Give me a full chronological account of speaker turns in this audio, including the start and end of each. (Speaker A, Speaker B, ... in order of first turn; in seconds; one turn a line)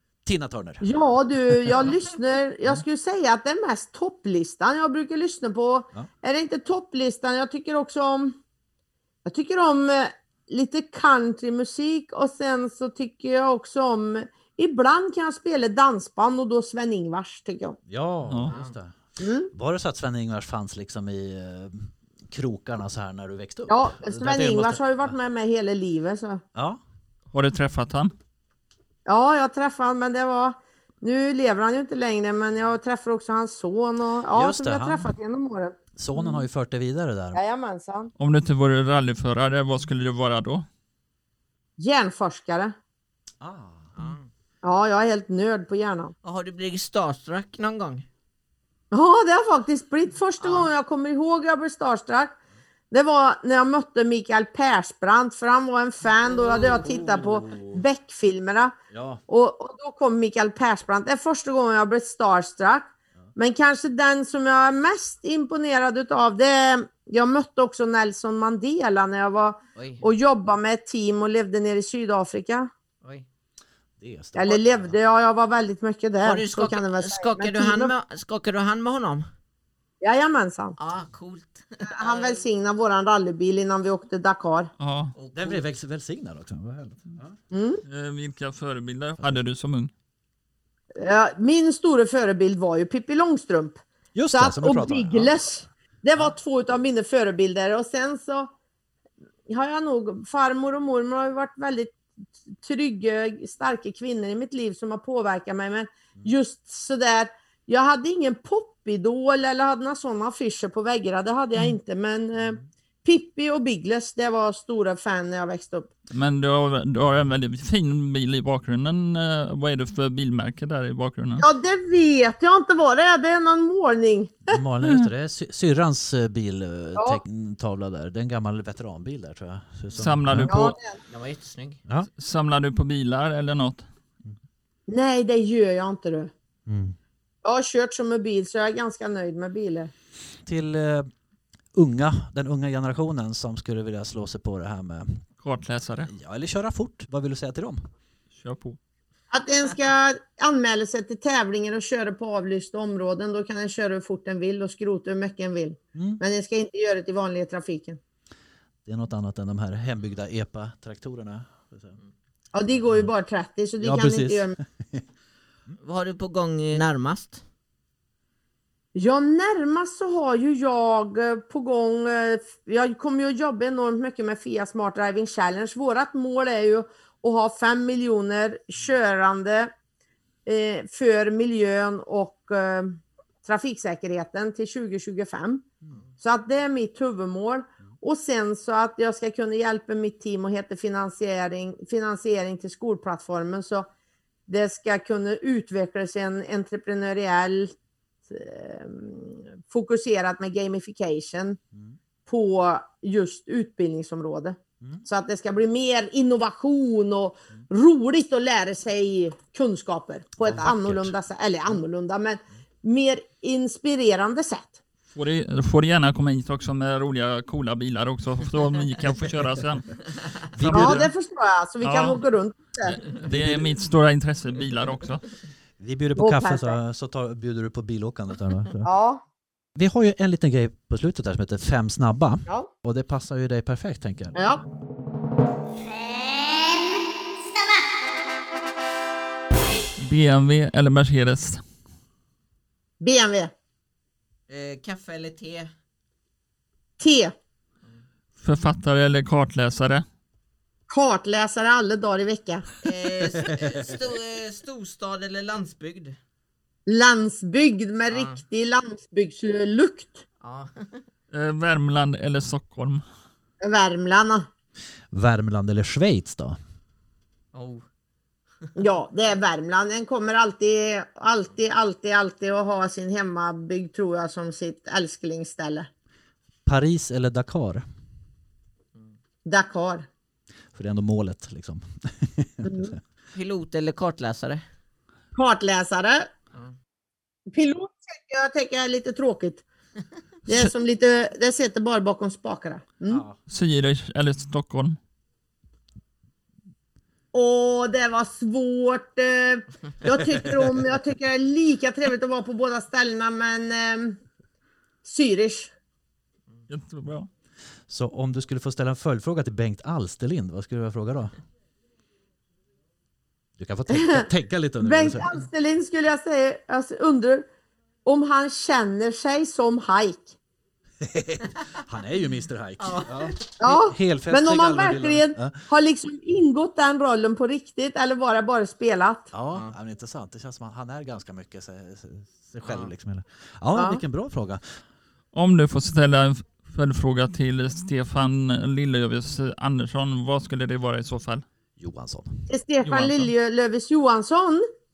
Speaker A: 0.2-0.9
Speaker B: 0.8-8.4
Speaker B: 9.2-17.8
Speaker A: 17.9-18.9
Speaker C: 18.5-18.7
Speaker B: 19.2-19.5
Speaker A: 19.5-25.1
Speaker B: 23.7-26.4
Speaker A: 26.5-26.8
Speaker D: 27.3-28.1
Speaker B: 29.1-36.4
Speaker A: 34.3-35.1
Speaker A: 36.0-37.4
Speaker B: 37.3-38.1
Speaker D: 38.2-40.6
Speaker B: 41.8-42.7
Speaker A: 43.4-44.1
Speaker C: 44.0-44.3
Speaker B: 44.6-46.1
Speaker C: 46.2-48.0
Speaker B: 48.9-52.3
Speaker C: 50.4-50.7
Speaker B: 52.9-58.8
Speaker A: 56.2-57.8
Speaker A: 58.9-59.2
Speaker B: 59.3-72.7
Speaker C: 69.8-70.1
Speaker A: 74.0-75.0
Speaker B: 74.3-77.9
Speaker C: 76.2-79.3
Speaker B: 80.0-80.8
Speaker C: 80.8-82.4
Speaker B: 81.8-84.7
Speaker D: 84.8-85.1
Speaker C: 85.1-85.6
Speaker A: 85.3-87.3
Speaker B: 87.5-87.8
Speaker D: 87.8-89.9
Speaker B: 91.0-98.5
Speaker A: 94.1-95.3
Speaker B: 99.5-102.0
Speaker B: 102.6-115.9
Speaker D: 116.1-121.4
Speaker B: 121.4-124.6
Speaker A: 124.5-130.6
Speaker B: 126.9-127.2
Speaker D: 129.9-130.8
Speaker B: 130.5-131.0
Speaker C: 131.1-131.8
Speaker D: 132.2-133.9
Speaker B: 134.9-136.3
Speaker A: 136.7-137.0
Speaker B: 137.4-139.9
Speaker A: 140.4-141.1
Speaker A: 141.7-145.2
Speaker D: 145.4-146.1
Speaker A: 146.1-147.8
Speaker D: 148.3-148.8
Speaker B: 149.3-158.0
Speaker A: 155.9-156.2
Speaker A: 158.8-162.0
Speaker B: 162.5-164.6
Speaker A: 163.8-165.0
Speaker C: 165.8-167.4
Speaker B: 168.9-179.7
Speaker B: 180.4-185.6
Speaker B: 186.2-193.9
Speaker B: 194.5-197.7
Speaker B: 198.3-201.6
Speaker B: 202.2-214.8
Speaker A: 210.4-211.1
Speaker D: 215.1-221.1
Speaker A: 220.5-221.0
Speaker B: 220.7-223.0
Speaker D: 221.8-222.2
Speaker D: 222.8-225.2
Speaker A: 223.2-223.8
Speaker A: 225.8-228.9
Speaker B: 226.2-226.8
Speaker B: 228.8-229.2
Speaker A: 229.8-234.3
Speaker B: 234.3-234.6
Speaker D: 240.0-241.6
Speaker B: 243.0-243.5
Speaker C: 244.5-245.7
Speaker B: 247.0-247.3
Speaker D: 248.4-250.0
Speaker B: 250.9-252.6
Speaker C: 252.8-256.2
Speaker B: 256.9-260.2
Speaker C: 258.1-258.4
Speaker C: 260.4-261.0
Speaker D: 261.3-263.0
Speaker B: 263.6-264.5
Speaker A: 265.1-266.6
Speaker C: 267.5-267.8
Speaker B: 268.8-275.9
Speaker A: 276.6-277.8
Speaker B: 279.4-280.1
Speaker A: 280.7-283.0
Speaker B: 282.6-282.9
Speaker C: 283.3-284.6
Speaker B: 285.4-286.3
Speaker B: 287.5-289.6
Speaker B: 290.4-293.2
Speaker A: 293.1-293.4
Speaker D: 293.5-295.0
Speaker B: 297.3-304.2
Speaker B: 305.0-305.7
Speaker D: 306.7-307.3
Speaker A: 307.9-311.4
Speaker A: 313.6-315.4
Speaker B: 313.9-314.2
Speaker B: 314.8-317.5
Speaker B: 318.0-320.4
Speaker A: 321.0-325.6
Speaker C: 322.8-323.3
Speaker B: 323.6-329.3
Speaker A: 329.3-334.8
Speaker C: 332.6-332.9
Speaker B: 333.7-334.0
Speaker D: 335.3-341.4
Speaker A: 341.8-342.5
Speaker B: 342.5-344.7
Speaker D: 342.8-343.3